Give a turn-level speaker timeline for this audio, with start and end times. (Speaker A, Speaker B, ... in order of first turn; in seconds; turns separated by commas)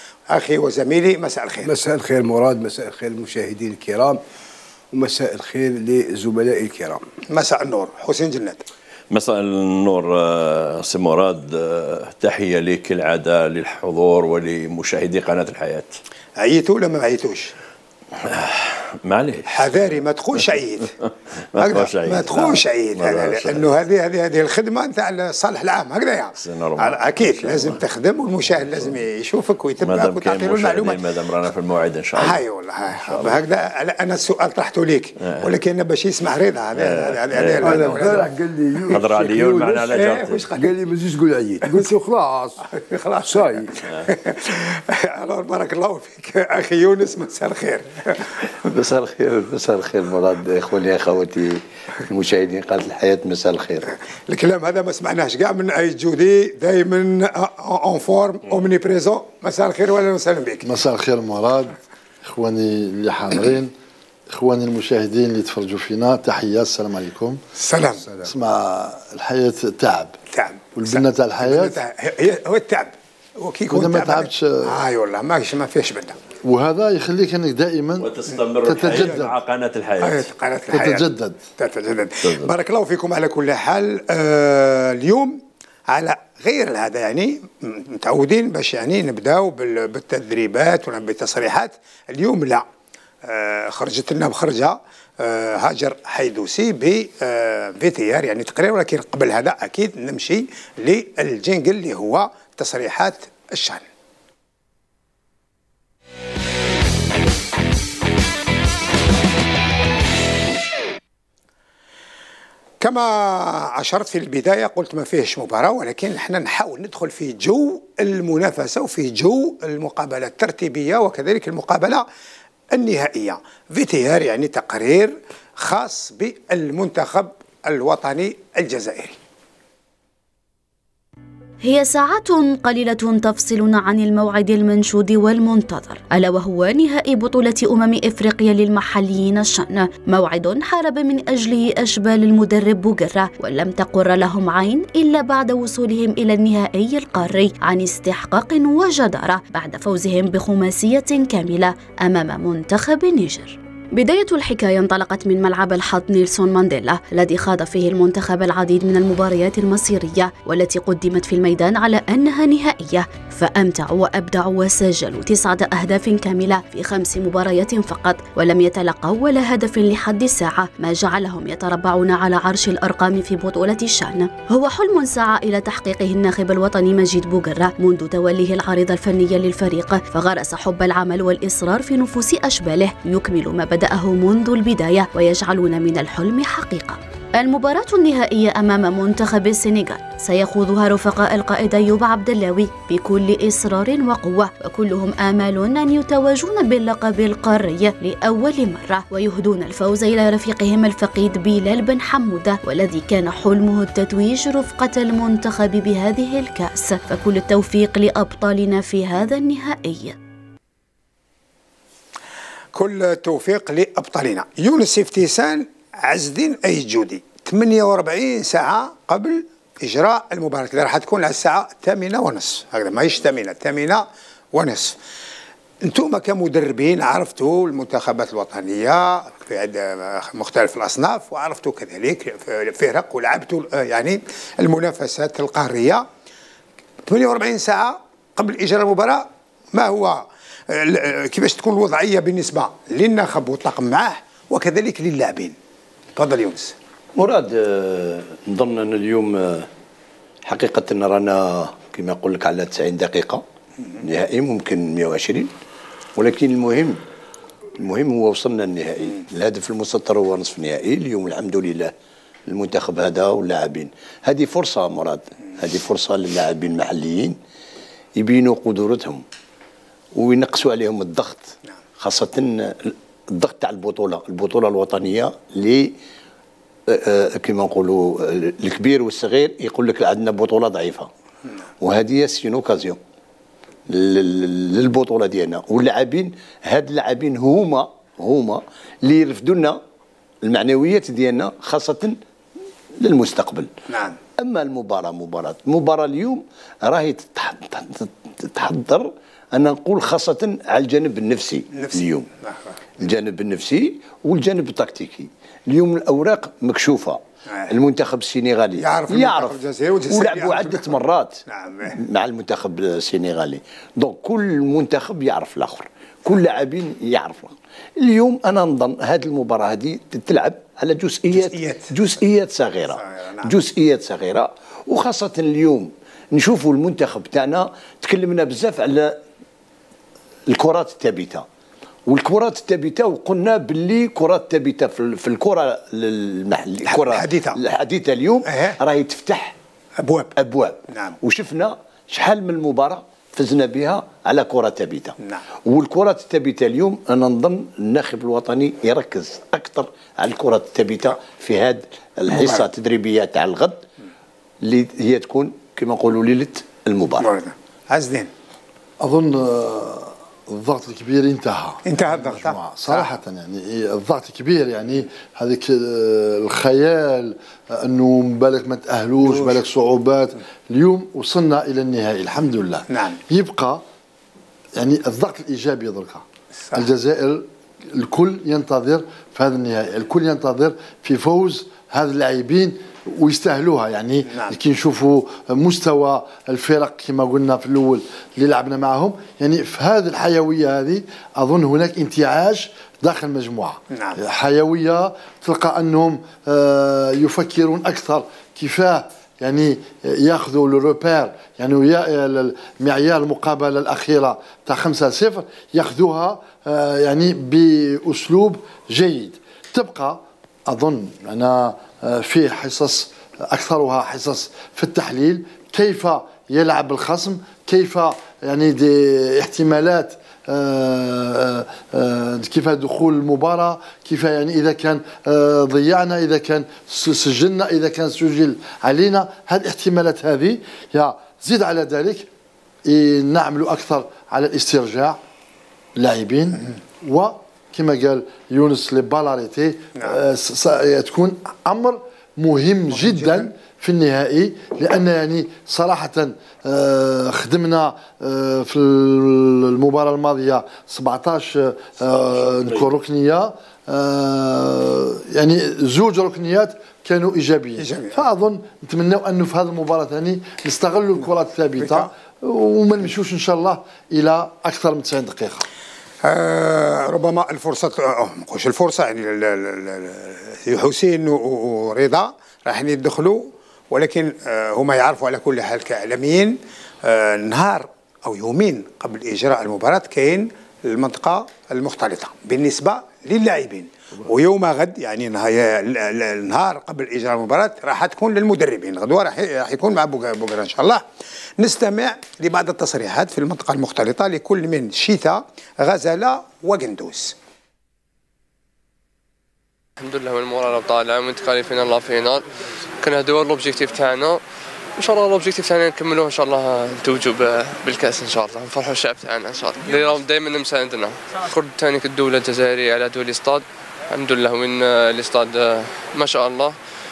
Speaker A: 0.3-1.7, Speaker B: 1.6-4.2, Speaker B: 4.9-7.0, Speaker A: 7.3-8.6, Speaker C: 9.1-15.9, Speaker A: 16.4-17.5, Speaker C: 18.2-20.0, Speaker A: 19.5-20.9, Speaker C: 21.6-23.7, Speaker A: 21.6-31.0, Speaker C: 26.4-27.8, Speaker C: 29.8-32.4, Speaker A: 32.2-38.3, Speaker C: 33.0-33.4, Speaker C: 36.8-38.3, Speaker B: 37.6-39.9, Speaker C: 38.9-40.4, Speaker A: 39.9-40.7, Speaker B: 40.6-42.6, Speaker A: 42.7-48.3, Speaker B: 43.2-43.7, Speaker D: 48.7-53.9, Speaker A: 54.3-60.6, Speaker E: 60.6-63.7, Speaker E: 64.3-67.4, Speaker A: 67.6-68.1, Speaker E: 68.2-70.1, Speaker A: 70.3-76.2, Speaker E: 70.8-71.8, Speaker E: 73.7-74.8, Speaker E: 76.5-78.1, Speaker C: 78.0-80.3, Speaker E: 78.7-79.3, Speaker A: 78.9-79.2, Speaker A: 80.0-81.1, Speaker E: 80.7-81.4, Speaker A: 81.6-92.7, Speaker C: 82.2-82.5, Speaker A: 93.2-103.8, Speaker A: 112.8-122.0, Speaker A: 122.7-129.2, Speaker F: 131.6-210.2, Speaker A: 212.8-225.0, Speaker A: 225.8-236.1, Speaker A: 237.1-245.6, Speaker A: 246.2-246.7, Speaker D: 247.2-249.7, Speaker D: 250.4-253.4, Speaker D: 254.0-255.5, Speaker D: 256.2-257.0, Speaker D: 257.8-261.9, Speaker D: 262.5-267.4, Speaker D: 268.2-269.2, Speaker D: 270.1-275.9, Speaker D: 276.9-281.1, Speaker D: 281.8-283.0, Speaker D: 283.9-289.8, Speaker D: 290.4-292.2, Speaker D: 293.0-293.7, Speaker A: 293.9-294.2, Speaker D: 294.4-302.3, Speaker A: 301.7-302.7, Speaker D: 303.0-307.2, Speaker D: 307.7-309.6, Speaker A: 308.8-310.9, Speaker D: 310.1-311.4, Speaker A: 311.5-312.0, Speaker D: 312.0-329.2, Speaker A: 321.4-321.9, Speaker A: 323.0-323.5, Speaker D: 330.5-331.4, Speaker D: 332.1-339.6, Speaker A: 336.9-337.6, Speaker A: 338.5-338.8, Speaker A: 340.0-340.3, Speaker D: 340.4-353.8, Speaker A: 340.9-341.2, Speaker A: 352.3-352.6, Speaker D: 354.6-357.3, Speaker A: 357.2-358.3, Speaker E: 359.0-373.8, Speaker A: 361.9-363.1, Speaker A: 369.3-369.6, Speaker A: 372.9-373.2, Speaker E: 374.8-432.3, Speaker A: 393.9-394.2, Speaker E: 432.9-435.2, Speaker E: 435.9-465.6, Speaker A: 442.9-443.5, Speaker A: 457.8-458.2, Speaker A: 461.8-462.1, Speaker A: 466.2-491.0, Speaker A: 491.6-497.4, Speaker G: 500.0-502.5, Speaker G: 503.0-504.4, Speaker G: 505.0-516.8